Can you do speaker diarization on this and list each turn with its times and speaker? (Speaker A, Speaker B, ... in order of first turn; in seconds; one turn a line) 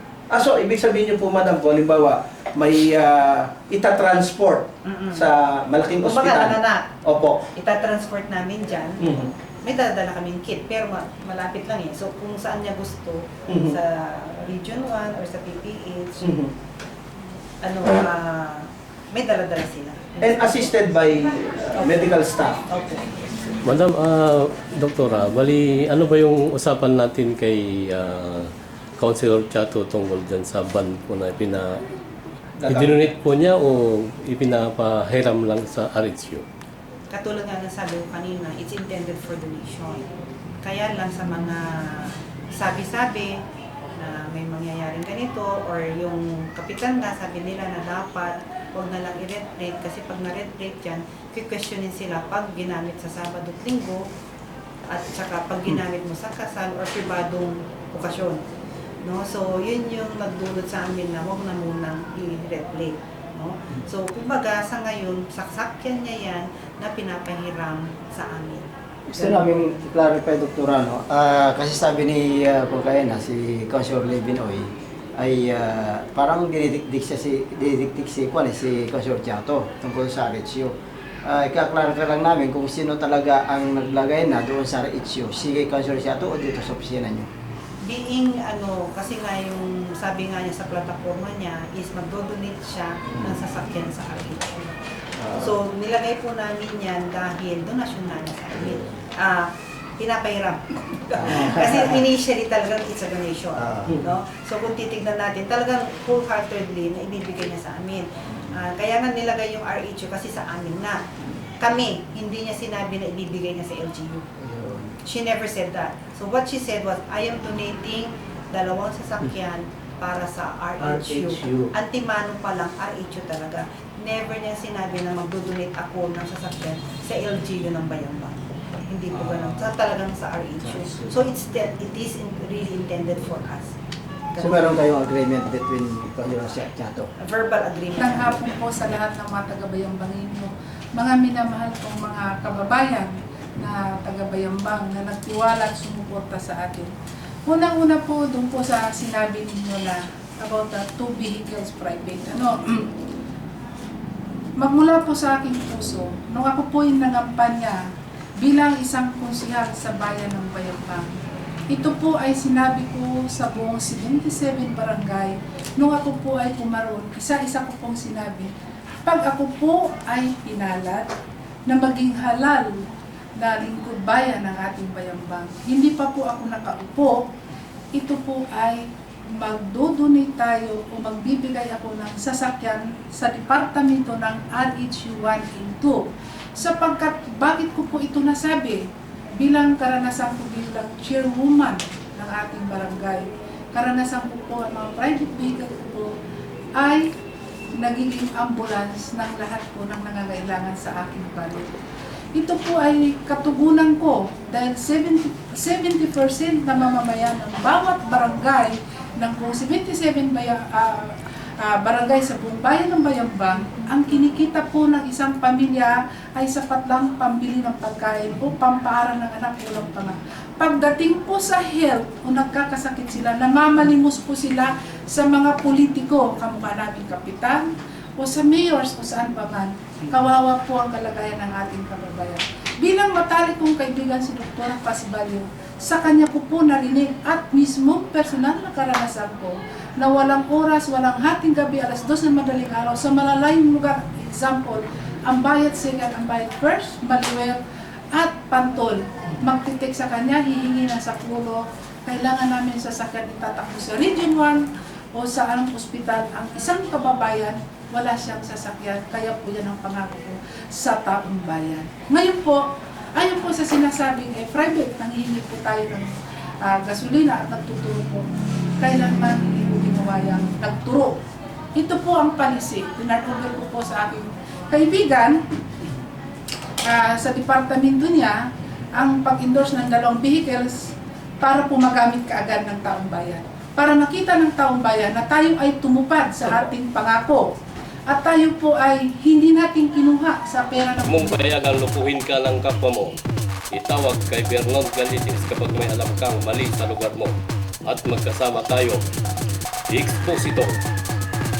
Speaker A: 0.3-7.5
Speaker B: 4.8-5.3
Speaker B: 6.0-7.0
Speaker B: 7.5-16.4
Speaker A: 9.0-9.3
Speaker A: 13.5-13.7
Speaker B: 17.6-20.9
Speaker A: 20.2-22.6
Speaker B: 21.7-23.0
Speaker C: 23.6-31.8
Speaker A: 32.6-33.0
Speaker C: 32.7-36.4
Speaker B: 37.1-40.1
Speaker B: 40.6-43.3
Speaker B: 44.0-54.0
Speaker B: 54.9-58.4
Speaker B: 59.0-69.8
Speaker D: 69.1-87.3
Speaker B: 87.8-94.8
Speaker D: 93.1-93.4
Speaker D: 95.2-95.6
Speaker B: 95.3-111.0
Speaker D: 98.6-98.8
Speaker D: 101.2-102.0
Speaker D: 103.6-104.0
Speaker B: 111.6-114.2
Speaker D: 114.4-115.0
Speaker B: 115.0-133.7
Speaker D: 120.8-121.7
Speaker D: 129.1-129.7
Speaker D: 130.6-131.2
Speaker B: 134.3-134.7
Speaker D: 134.4-137.1
Speaker B: 137.2-138.4
Speaker E: 138.0-146.9
Speaker E: 147.4-152.9
Speaker E: 154.6-157.8
Speaker E: 158.4-161.1
Speaker E: 161.7-168.5
Speaker E: 169.0-171.1
Speaker E: 171.7-172.8
Speaker E: 173.4-177.2
Speaker E: 177.9-178.8
Speaker E: 179.4-188.8
Speaker E: 189.4-196.1
Speaker E: 196.8-197.1
Speaker E: 197.8-201.7
Speaker E: 202.3-247.6
Speaker E: 248.1-254.6
Speaker E: 255.1-266.1
Speaker E: 266.6-268.2
Speaker E: 268.8-271.2
Speaker E: 271.7-275.4
Speaker E: 276.8-278.4
Speaker E: 278.9-287.5
Speaker E: 288.1-291.4
Speaker C: 291.0-293.2
Speaker C: 293.7-299.0
Speaker C: 299.9-300.8